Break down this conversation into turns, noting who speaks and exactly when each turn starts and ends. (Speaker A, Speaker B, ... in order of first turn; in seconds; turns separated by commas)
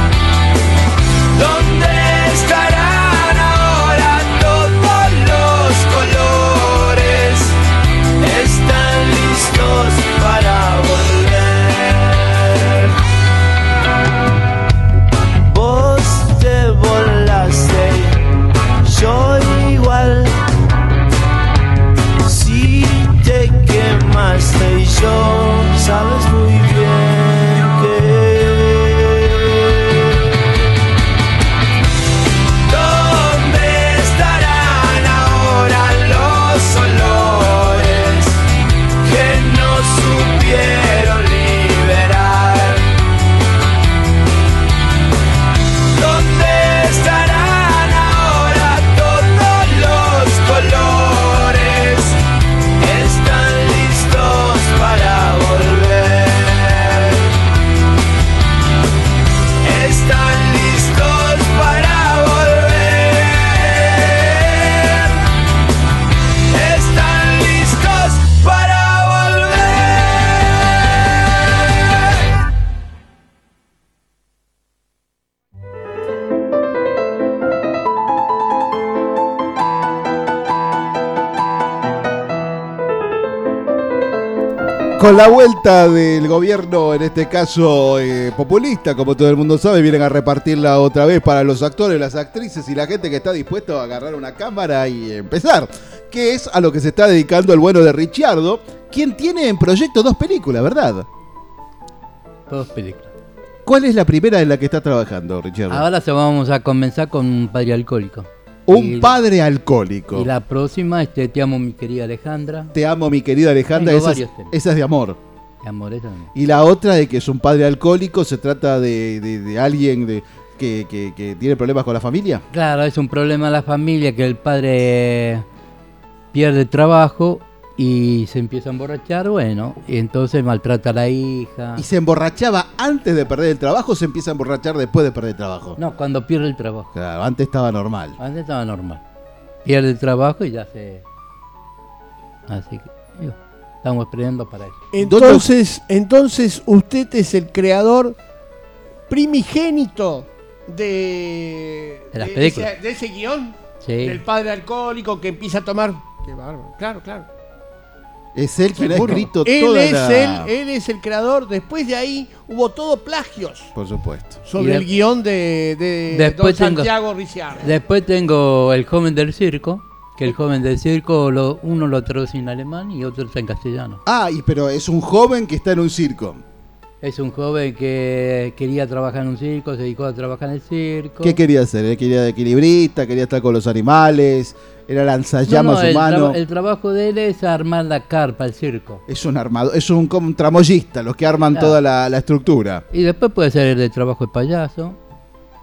Speaker A: 85.0-101.1, Speaker B: 102.5-103.1, Speaker A: 103.7-105.8, Speaker B: 105.7-109.2, Speaker A: 108.7-110.3, Speaker B: 110.1-112.7, Speaker A: 112.7-115.2, Speaker B: 113.7-114.5, Speaker B: 115.6-116.3, Speaker A: 116.3-122.4, Speaker B: 122.5-125.5, Speaker B: 126.3-131.8, Speaker A: 131.8-135.8, Speaker B: 135.8-136.9, Speaker A: 136.9-138.2, Speaker B: 138.2-139.0, Speaker B: 139.7-141.0, Speaker B: 142.5-144.8, Speaker C: 144.9-148.2, Speaker A: 145.0-145.5, Speaker C: 149.1-157.3, Speaker B: 152.1-152.7, Speaker B: 153.8-154.2, Speaker A: 158.3-160.5, Speaker C: 158.7-163.7, Speaker A: 163.8-164.4, Speaker C: 164.5-167.8, Speaker B: 164.6-164.9, Speaker B: 166.1-166.9, Speaker B: 167.6-174.0, Speaker A: 174.1-176.4, Speaker B: 177.0-181.4, Speaker A: 181.2-186.4, Speaker B: 185.4-189.0, Speaker A: 189.1-192.8, Speaker B: 192.9-195.0